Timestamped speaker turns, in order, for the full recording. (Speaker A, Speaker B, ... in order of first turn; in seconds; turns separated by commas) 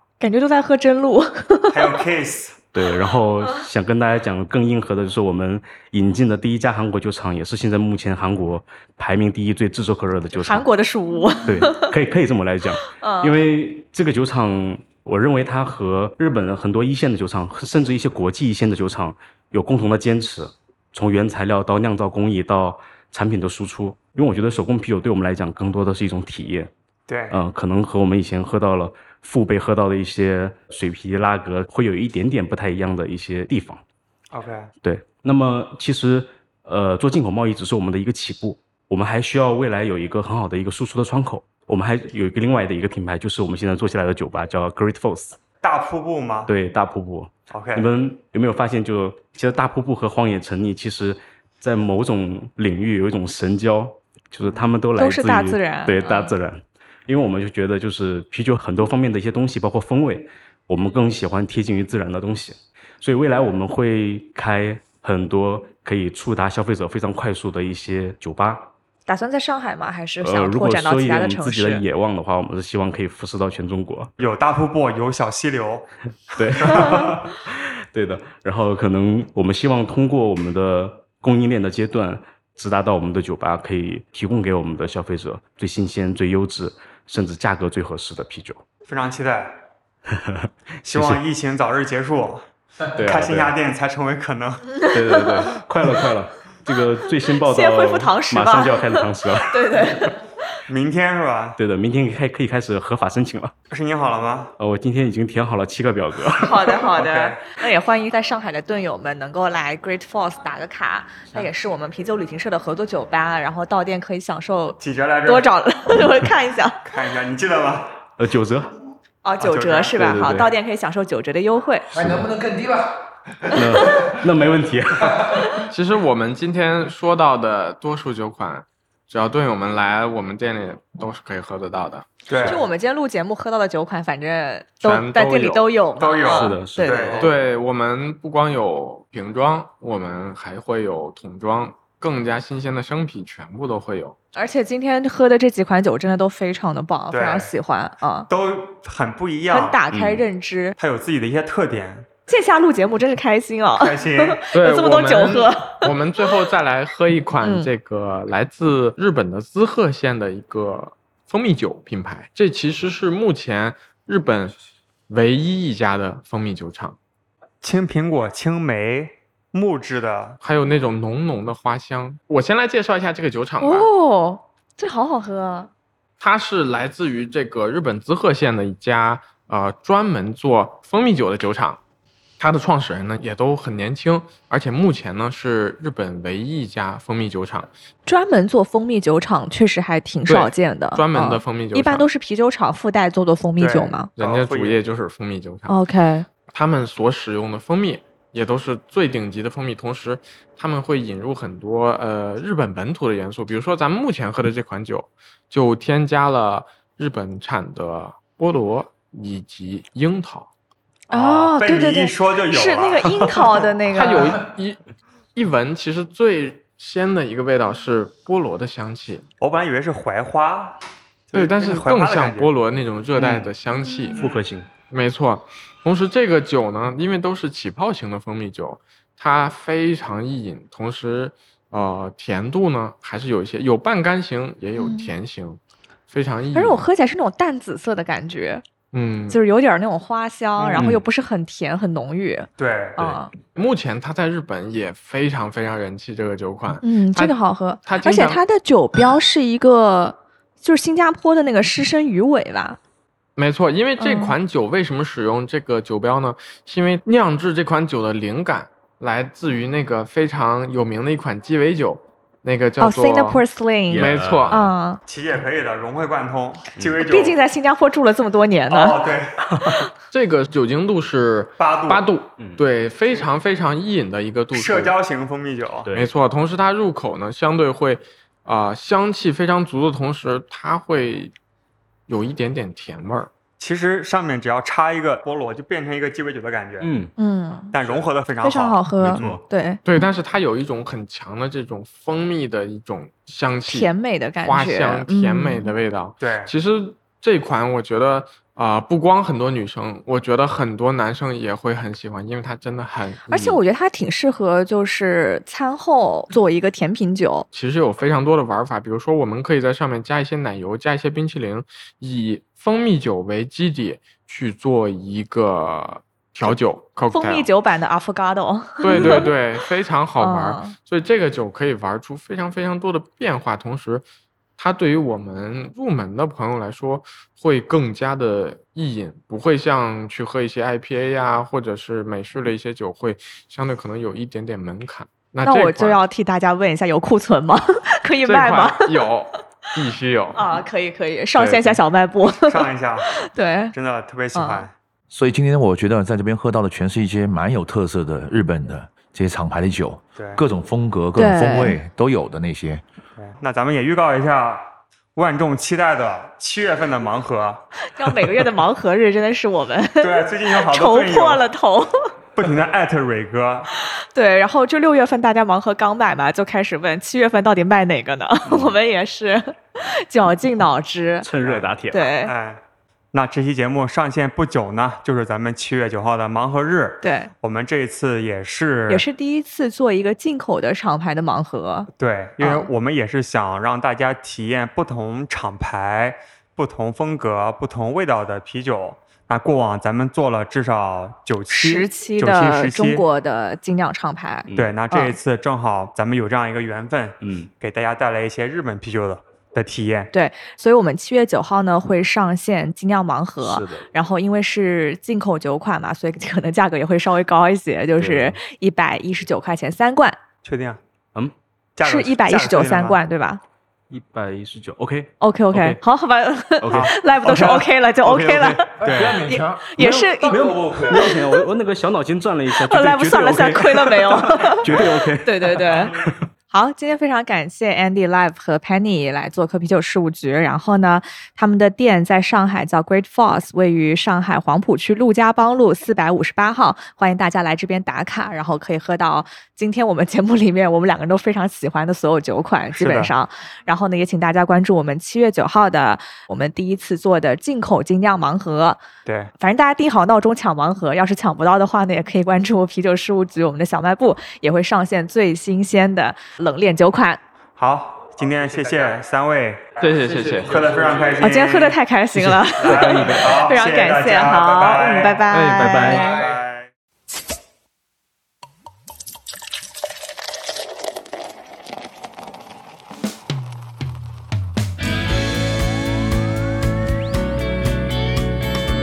Speaker A: 0.2-1.9, Speaker B: 1.7-2.6, Speaker C: 2.7-10.7, Speaker A: 10.4-11.9, Speaker C: 11.4-26.7, Speaker A: 12.9-13.4, Speaker B: 27.1-27.3, Speaker C: 27.3-33.8, Speaker B: 34.3-34.7, Speaker C: 34.8-45.4, Speaker B: 45.6-46.5, Speaker C: 46.5-68.7, Speaker B: 47.5-47.9, Speaker A: 55.0-56.3, Speaker A: 69.1-71.8, Speaker C: 70.2-74.1, Speaker B: 74.2-75.9, Speaker C: 76.3-88.6, Speaker B: 76.4-77.2, Speaker B: 88.9-89.6, Speaker C: 90.1-91.2, Speaker B: 90.8-94.7, Speaker C: 92.9-93.5, Speaker A: 94.8-95.4, Speaker C: 94.9-100.1, Speaker A: 97.4-100.2, Speaker B: 100.7-101.6, Speaker C: 101.6-103.5, Speaker B: 103.7-104.5, Speaker C: 104.6-106.8, Speaker A: 106.4-116.8, Speaker B: 106.9-107.4, Speaker B: 114.8-115.5, Speaker B: 116.8-118.0, Speaker C: 118.2-118.7, Speaker A: 119.2-122.1, Speaker B: 119.4-120.2, Speaker C: 120.0-120.5, Speaker C: 122.0-122.3, Speaker D: 122.0-123.0, Speaker C: 123.5-125.3, Speaker A: 123.5-124.1, Speaker E: 125.7-132.6, Speaker B: 132.3-132.6, Speaker A: 132.4-137.3, Speaker E: 134.8-135.7, Speaker B: 136.0-137.4, Speaker C: 136.2-137.0, Speaker E: 137.2-144.2, Speaker A: 144.3-148.3, Speaker B: 147.1-147.5, Speaker B: 148.3-149.8, Speaker A: 149.5-150.8, Speaker C: 149.9-150.2, Speaker B: 150.8-152.1, Speaker A: 152.3-155.9, Speaker B: 153.8-154.5, Speaker E: 154.5-164.5, Speaker A: 157.4-157.7, Speaker E: 165.1-167.0, Speaker B: 167.6-170.4, Speaker E: 170.4-173.9, Speaker A: 173.6-175.7, Speaker E: 176.2-181.8, Speaker E: 182.4-187.7, Speaker A: 188.1-194.1, Speaker E: 190.3-192.1, Speaker B: 193.6-194.8, Speaker E: 194.2-195.7, Speaker A: 195.7-196.2, Speaker E: 196.5-210.5, Speaker B: 211.1-213.6, Speaker A: 211.1-214.4, Speaker E: 213.9-214.8, Speaker E: 215.3-219.2, Speaker B: 219.4-220.8, Speaker B: 221.3-222.5, Speaker E: 221.3-224.2, Speaker C: 223.2-223.5, Speaker C: 224.2-224.7, Speaker E: 224.9-236.8, Speaker A: 234.8-235.1, Speaker A: 236.5-238.6, Speaker E: 238.9-239.4, Speaker A: 239.3-243.3, Speaker E: 240.6-240.9, Speaker B: 242.6-243.2, Speaker E: 243.5-248.4, Speaker A: 246.8-252.8, Speaker E: 253.4-264.7, Speaker A: 254.0-254.3, Speaker A: 262.8-265.0, Speaker C: 263.9-264.6, Speaker B: 265.1-267.4, Speaker A: 267.0-269.0, Speaker B: 268.7-269.8, Speaker E: 270.1-274.9, Speaker B: 271.6-272.1, Speaker B: 274.5-275.9, Speaker C: 275.9-276.1, Speaker E: 275.9-281.3, Speaker E: 282.1-283.3, Speaker B: 283.6-286.9, Speaker C: 286.8-287.1, Speaker A: 287.2-287.7, Speaker B: 287.7-289.4, Speaker A: 288.4-289.8, Speaker C: 289.0-289.4, Speaker E: 289.8-293.9, Speaker A: 293.7-295.7, Speaker E: 294.4-303.6, Speaker B: 296.2-296.5, Speaker A: 303.3-307.5, Speaker E: 307.5-317.5, Speaker A: 317.1-319.3, Speaker E: 318.8-324.0, Speaker A: 320.2-320.7, Speaker E: 324.6-336.0, Speaker A: 335.4-338.9, Speaker E: 338.2-340.5, Speaker A: 340.3-343.7, Speaker E: 341.4-341.8, Speaker B: 342.4-343.1, Speaker B: 343.7-344.7, Speaker A: 344.3-344.7, Speaker D: 345.1-352.8, Speaker B: 350.2-350.4, Speaker A: 351.1-351.8, Speaker B: 353.2-357.6, Speaker A: 357.9-361.9, Speaker B: 360.0-361.4, Speaker B: 362.4-363.7, Speaker A: 364.1-371.3, Speaker C: 368.5-368.7, Speaker C: 371.2-372.1, Speaker B: 371.4-371.7, Speaker A: 371.9-372.3, Speaker B: 372.2-379.1, Speaker A: 377.0-377.3, Speaker A: 378.9-381.9, Speaker B: 381.9-393.0, Speaker A: 382.4-382.7, Speaker A: 391.5-395.1, Speaker C: 394.5-394.7, Speaker B: 394.6-400.1, Speaker C: 397.2-397.5, Speaker A: 400.1-410.2, Speaker C: 403.4-403.9, Speaker C: 408.0-408.4, Speaker B: 410.4-410.8, Speaker B: 411.8-413.0, Speaker A: 411.8-413.4, Speaker C: 413.9-415.8, Speaker A: 415.2-421.4, Speaker C: 416.6-426.2, Speaker B: 416.7-416.9, Speaker B: 418.8-419.3, Speaker A: 422.5-425.9, Speaker A: 426.5-448.8, Speaker B: 442.7-443.1, Speaker B: 449.0-449.3, Speaker A: 449.4-457.2, Speaker B: 457.6-461.8, Speaker E: 459.8-461.2, Speaker A: 461.2-466.2, Speaker C: 462.1-463.4, Speaker B: 462.6-465.3, Speaker E: 465.3-466.3, Speaker C: 465.3-466.1, Speaker B: 465.9-466.7